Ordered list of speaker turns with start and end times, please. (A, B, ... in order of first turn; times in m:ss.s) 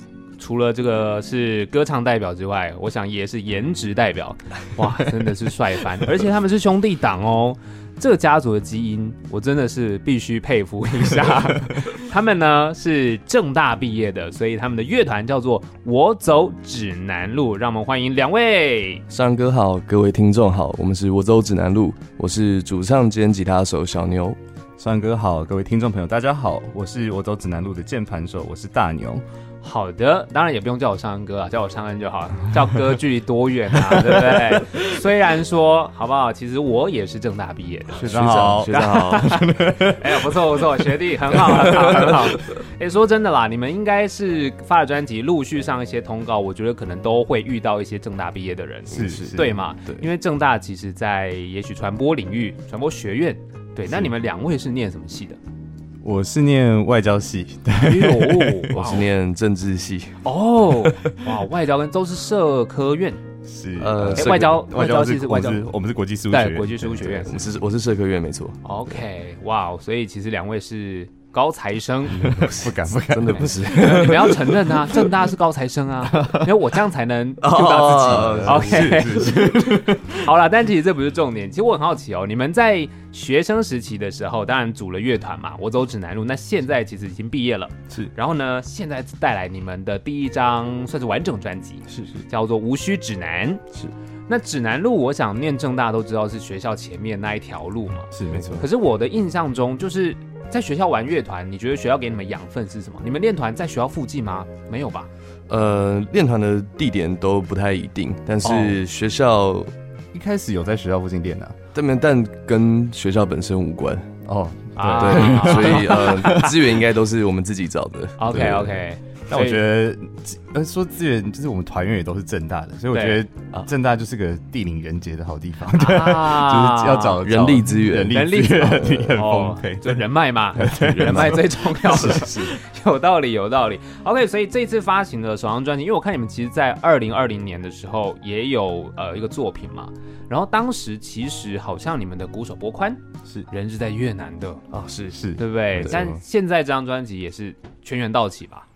0:00.4-0:19.0 A
0:19.1-0:24.4 B
0:24.8-0:29.2 C
0:29.6-0:55.4 A
0:33.9-0:34.7 C
0:38.0-0:39.4 B
0:38.0-0:42.4 C
0:48.9-0:49.6 C
0:49.0-0:50.1 B
0:56.0-0:59.0 C
0:57.8-0:59.1 A
0:58.7-1:01.2 B
1:00.2-1:03.2 A
1:03.4-1:07.4 C
1:03.8-1:04.6 B
1:04.2-1:05.7 A
1:06.3-1:07.4 A
1:07.1-1:08.6 B
1:08.6-1:12.5 A
1:12.1-1:14.9 B
1:12.2-1:14.2 C
1:13.3-1:33.6 A
1:16.1-1:16.6 C
1:17.4-1:19.1 B
1:18.1-1:20.3 C
1:31.9-1:32.2 C
1:34.3-1:45.1 A
1:38.1-1:38.6 C
1:38.3-1:38.6 B
1:45.5-1:49.7 B
1:48.4-1:48.8 A
1:50.1-1:51.6 C
1:51.8-1:54.1 B
1:54.2-1:56.6 C
1:54.8-1:56.5 A
1:55.0-1:58.8 B
1:58.2-1:59.6 A
1:59.3-2:12.5 C
2:02.9-2:03.2 A
2:05.7-2:07.2 A
2:07.2-2:08.3 B
2:08.1-2:24.7 A
2:10.6-2:12.4 B
2:24.7-2:26.1 B
2:25.1-2:26.2 C
2:25.4-2:28.6 A